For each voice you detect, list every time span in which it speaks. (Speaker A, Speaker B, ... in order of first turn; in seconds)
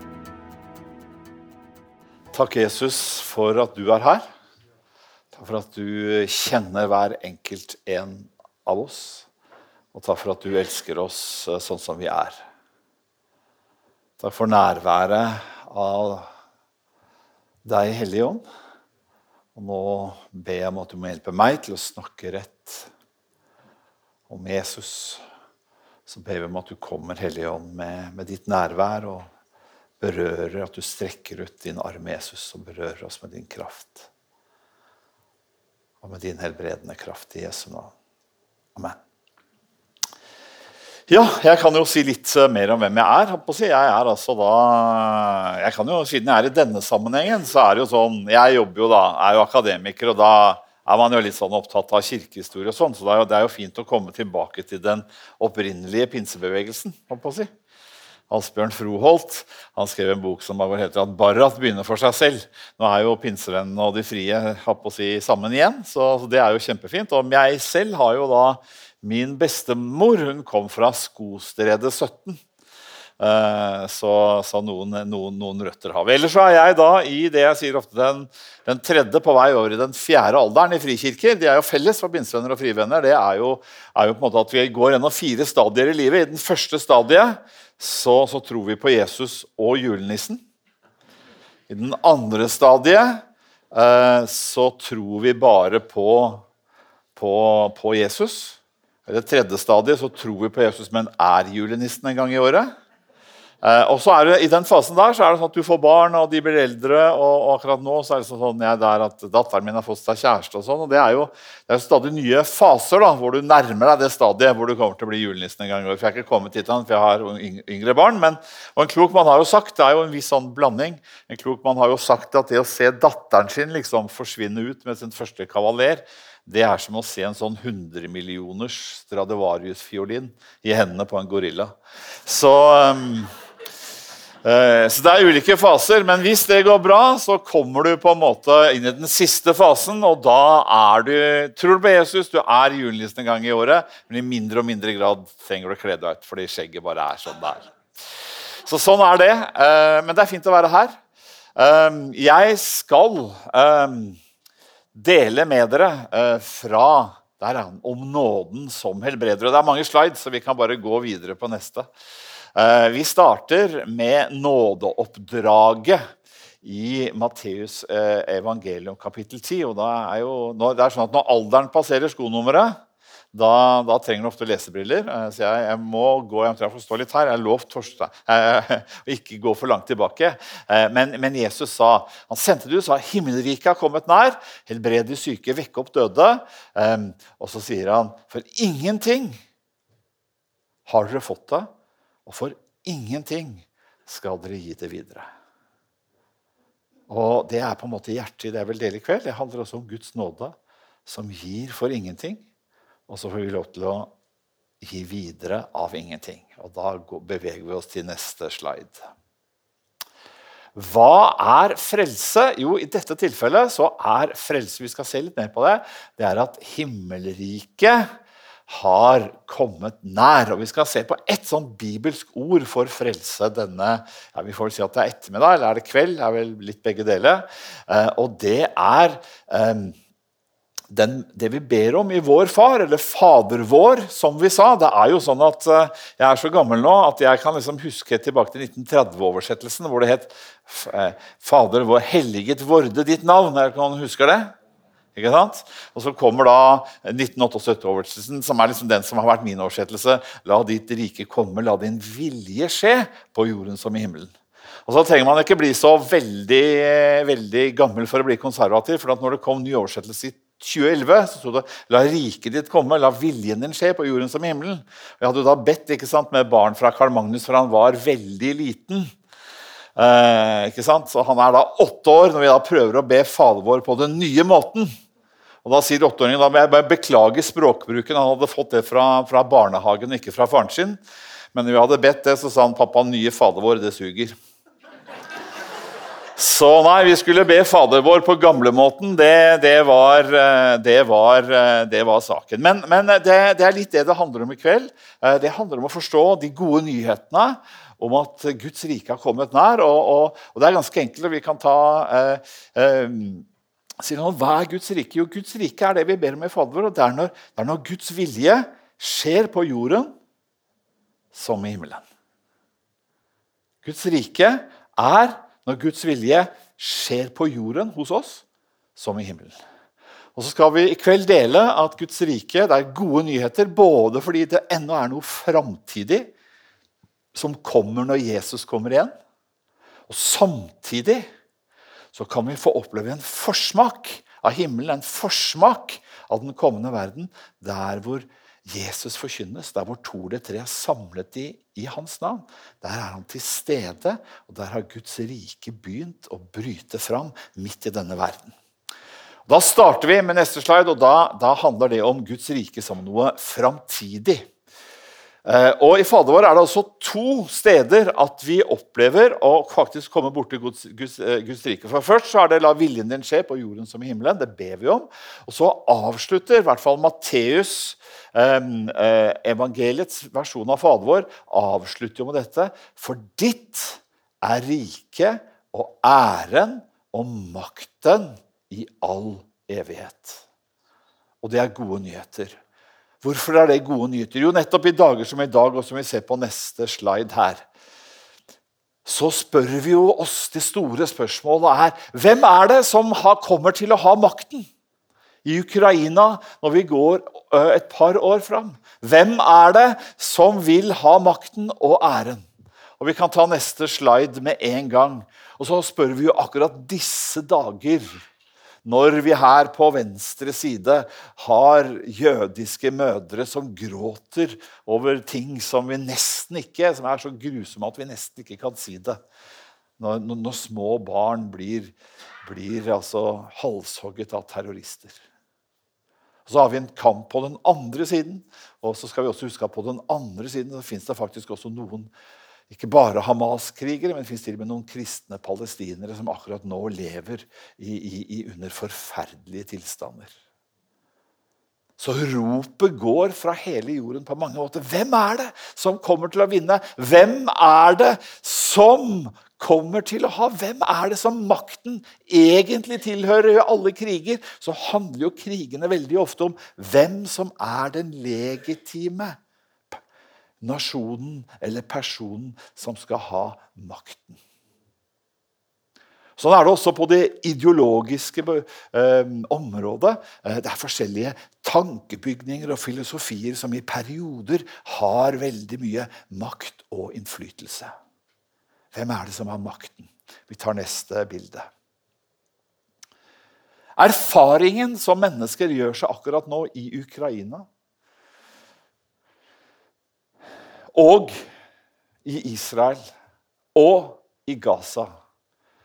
Speaker A: 2.3-4.3, 5.3-9.3, 9.9-12.4, 14.2-16.3, 17.6-18.4, 19.6-22.9, 24.3-25.2, 26.1-29.3, 30.0-34.1, 36.0-37.9, 41.1-57.5, 58.3-72.4, 73.2-90.4, 91.7-96.5, 97.2-102.7, 103.6-133.3, 134.4-147.7, 148.7-151.0, 151.6-154.2, 154.9-161.9, 162.6-166.0, 166.6-172.8, 173.3-189.4, 190.9-191.7, 192.3-195.3, 197.1-200.6, 201.1-202.4, 203.1-204.1, 204.8-209.0, 210.8-218.1, 218.7-230.0, 230.9-244.5, 245.2-254.3, 254.9-269.1, 270.0-274.9, 275.6-281.0, 281.5-284.4, 286.4-303.5, 304.0-310.1, 311.3-312.0, 313.8-318.4, 319.0-319.6, 320.4-326.3, 327.3-329.1, 330.1-331.2, 332.1-348.6, 349.5-354.5, 355.4-380.4, 381.4-382.6, 383.2-387.7, 389.1-394.7, 395.4-402.5, 403.0-408.2, 408.9-419.2, 420.0-425.2, 426.5-432.1, 432.7-440.3, 442.0-459.4, 460.6-464.4, 466.4-477.9, 478.9-481.7, 484.0-487.7, 490.9-491.4, 492.2-493.0, 493.8-495.1